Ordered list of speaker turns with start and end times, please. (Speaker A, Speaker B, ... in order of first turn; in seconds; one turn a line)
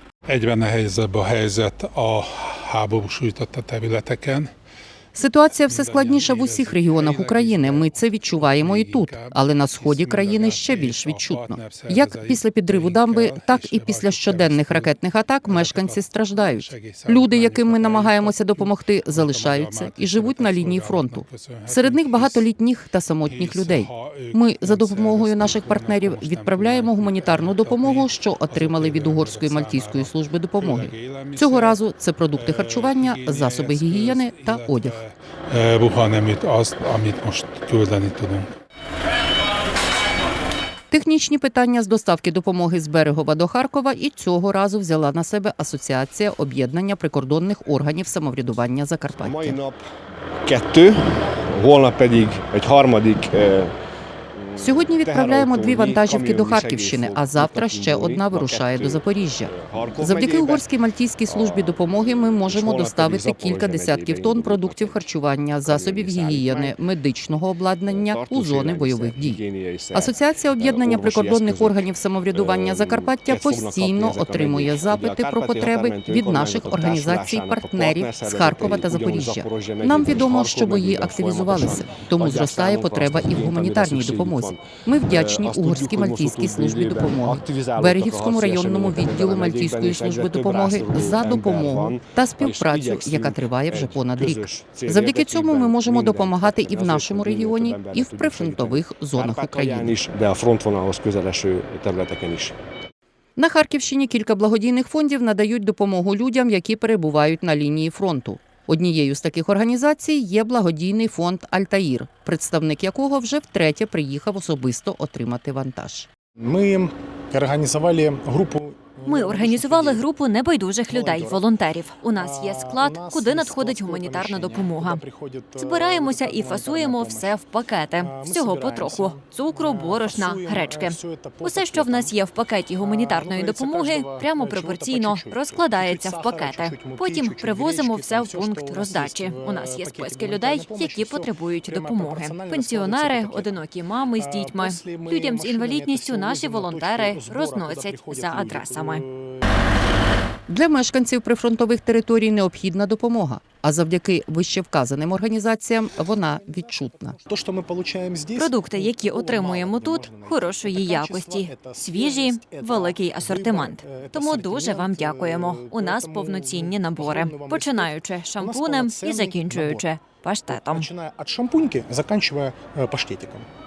Speaker A: 0.3-4.5
Speaker B: 5.1-35.0
Speaker A: 5.6-22.4
Speaker A: 23.2-31.8
Speaker A: 32.3-38.5
Speaker B: 40.9-49.6
Speaker C: 49.2-49.8
Speaker C: 50.4-53.7
Speaker C: 54.3-60.7
Speaker B: 54.6-69.4
Speaker C: 61.3-65.0
Speaker C: 65.6-66.8
Speaker C: 67.9-102.5
Speaker B: 69.9-100.0
Speaker B: 103.4-116.1
Speaker D: 116.4-120.0
Speaker E: 119.0-125.0
Speaker D: 120.9-121.4
Speaker D: 122.1-127.3
Speaker E: 125.6-149.0
Speaker D: 128.0-132.1
Speaker D: 132.8-143.6
Speaker D: 144.2-149.4
Speaker B: 150.5-157.2
Speaker D: 156.0-169.9
Speaker E: 158.3-170.9
Speaker D: 170.5-173.5